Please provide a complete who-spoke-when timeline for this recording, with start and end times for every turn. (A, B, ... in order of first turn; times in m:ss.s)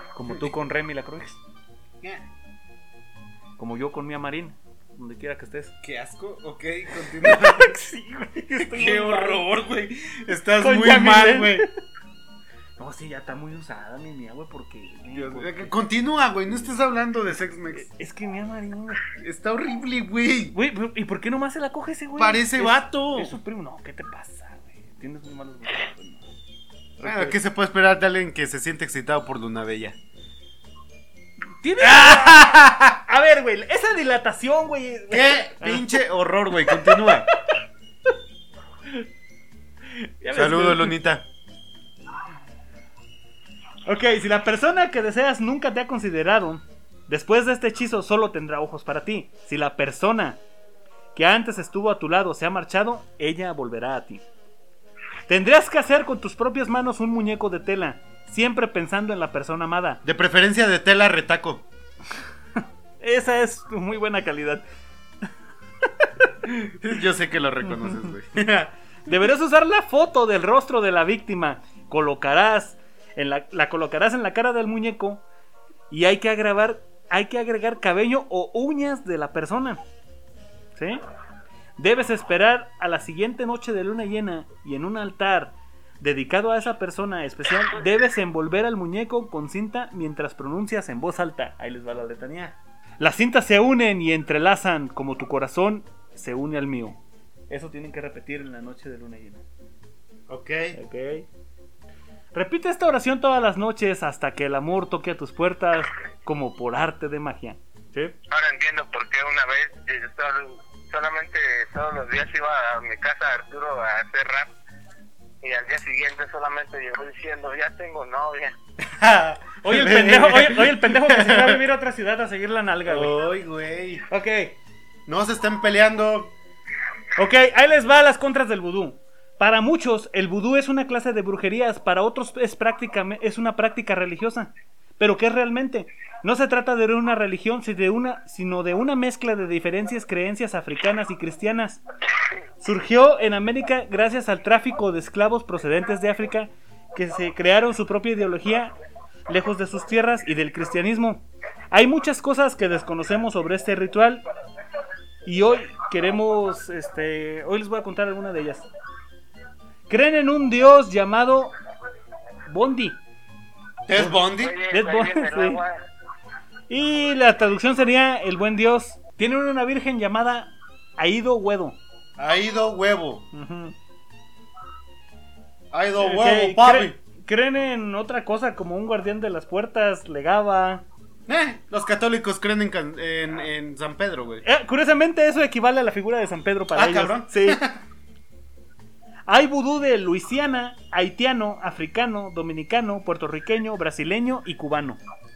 0:00.1-0:01.4 A
0:03.6-0:05.7 A
0:05.8-0:07.7 B
0:07.2-0:09.5 A
0:08.6-0:11.7 B
0:10.6-0:11.7 A
0:12.8-0:15.7 A
0:15.1-0:17.8 B
0:17.7-0:19.0 A
0:19.2-0:20.6 B
0:20.5-0:26.2 A
0:22.2-0:23.4 B
0:27.0-0:27.4 A
0:27.0-0:30.0 B
0:31.6-0:36.0 A
0:31.8-0:33.0 B
0:35.1-0:37.3 B
0:36.6-0:37.1 A
0:39.9-0:41.0 A
0:40.3-0:41.2 B
0:43.8-0:50.4 A
0:51.1-0:54.2 A
0:55.3-1:00.0 A
1:00.0-1:01.6 B
1:03.0-1:04.6 A
1:05.8-1:06.3 A
1:06.5-1:08.7 B
1:07.6-1:08.1 A
1:09.0-1:15.2 A
1:15.9-1:19.8 A
1:20.8-1:21.0 A
1:21.8-1:37.0 A
1:37.5-1:39.4 A
1:40.3-1:40.7 B
1:40.7-1:41.3 A
1:42.3-1:48.1 A
1:48.3-1:54.5 C
1:55.4-1:58.6 C
1:58.8-2:01.6 B
1:59.6-2:03.1 A
2:02.8-2:04.0 B
2:04.1-2:04.6 A
2:05.1-2:06.3 B
2:07.2-2:21.8 A
2:22.6-2:28.7 A
2:29.3-2:34.2 A
2:35.2-2:38.7 A
2:39.9-2:41.5 A
2:42.5-2:43.0 A
2:43.9-2:44.6 B
2:44.2-2:45.8 C
2:44.7-2:45.6 A
2:46.7-2:51.8 A
2:52.2-2:53.3 B
2:53.3-2:53.8 A
2:55.7-2:57.0 B
2:56.0-3:00.8 A
3:01.3-3:04.4 B
3:04.4-3:07.6 A
3:06.7-3:07.8 B
3:09.3-3:15.0 A